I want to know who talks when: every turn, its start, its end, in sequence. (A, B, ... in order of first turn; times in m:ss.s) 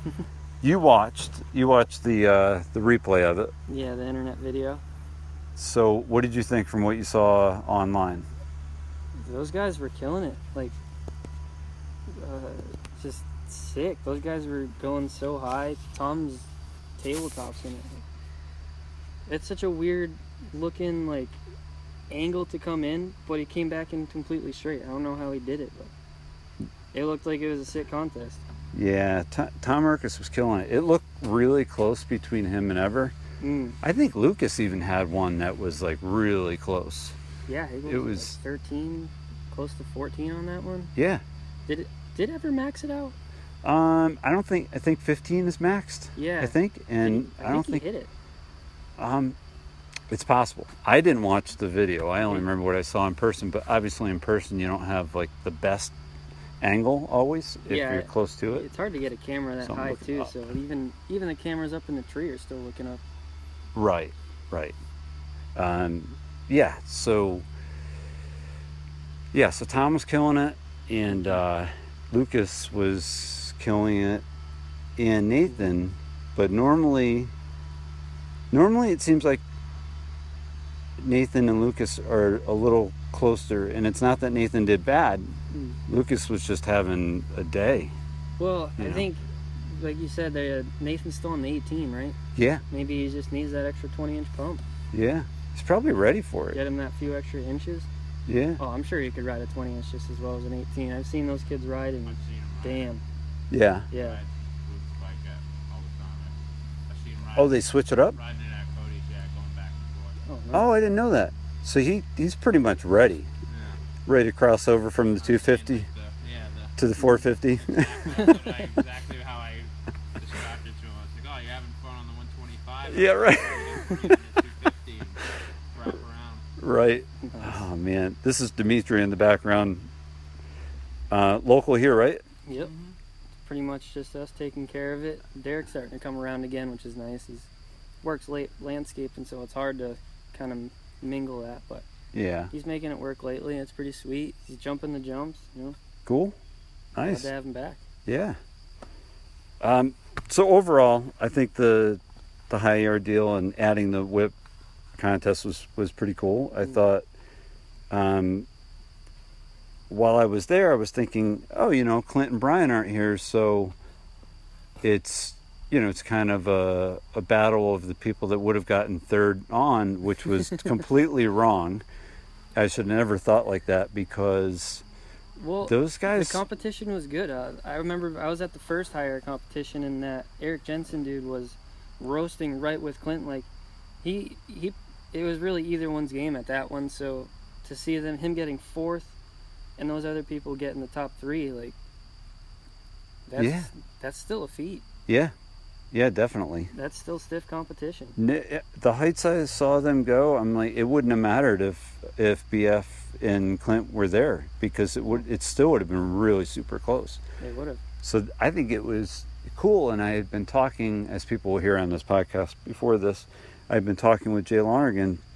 0:00.6-0:03.5 A
0:03.7-0:04.8 B
0:05.6-0:08.3 A
0:09.2-0:10.7 B
0:12.1-0:16.5 B
0:17.0-0:17.9 B
0:19.3-0:21.4 B
0:22.1-0:25.9 B
0:26.9-0:28.4 B
0:28.7-0:33.2 A
0:33.4-0:33.8 B
0:33.8-0:37.2 A
0:37.5-0:40.9 B
0:37.8-0:38.4 A
0:41.0-0:41.2 A
0:41.7-0:43.2 B
0:43.6-0:47.8 A
0:46.2-0:48.1 B
0:49.0-0:49.4 A
0:50.1-0:55.9 A
0:56.6-0:58.7 A
0:57.7-1:03.0 B
0:59.6-1:00.3 A
1:03.7-1:04.8 A
1:05.5-1:07.4 A
1:09.3-1:14.2 A
1:11.1-1:11.4 B
1:15.0-1:17.3 A
1:18.5-1:19.4 A
1:21.0-1:25.3 A
1:25.5-1:25.8 B
1:25.9-1:27.9 A
1:28.4-1:32.2 B
1:28.8-1:29.0 A
1:32.4-1:32.6 A
1:32.7-1:34.6 B
1:34.9-1:36.6 A
1:36.5-1:37.9 B
1:38.3-1:38.6 A
1:38.6-1:43.0 B
1:42.0-1:42.9 C
1:43.5-1:43.9 A
1:43.9-1:44.2 B
1:44.0-1:50.2 C
1:47.3-1:48.2 A
1:50.2-1:50.7 B
1:50.5-1:53.3 A
1:53.5-1:53.8 C
1:54.1-1:55.9 A
1:55.1-1:56.9 C
1:56.8-1:58.0 A
1:57.7-2:05.2 C
1:58.2-1:58.6 B
2:02.9-2:03.8 A
2:05.7-2:06.4 C
2:06.6-2:09.9 A
2:07.2-2:07.6 B
2:11.1-2:12.2 A
2:12.5-2:12.9 C
2:13.4-2:17.5 B
2:18.0-2:21.8 B
2:22.1-2:22.5 A
2:22.5-2:25.8 B
2:26.0-2:26.4 A
2:26.9-2:27.3 A
2:27.0-2:27.8 B
2:28.0-2:28.4 A
2:29.6-2:34.3 A
2:35.0-2:37.0 A
2:37.9-2:38.5 A
2:39.9-2:43.7 A
2:44.8-2:51.8 A
2:52.5-2:54.8 A
2:55.4-3:03.5 B
2:55.6-2:56.4 A
3:04.0-3:09.1 B
3:09.8-3:11.7 B
3:13.3-3:14.8 B
3:13.4-3:13.7 A
3:15.1-3:15.3 A
3:15.9-3:16.7 A
3:16.7-3:18.2 B
3:18.2-3:27.2 A
3:27.4-3:27.8 B
3:28.0-3:35.2 A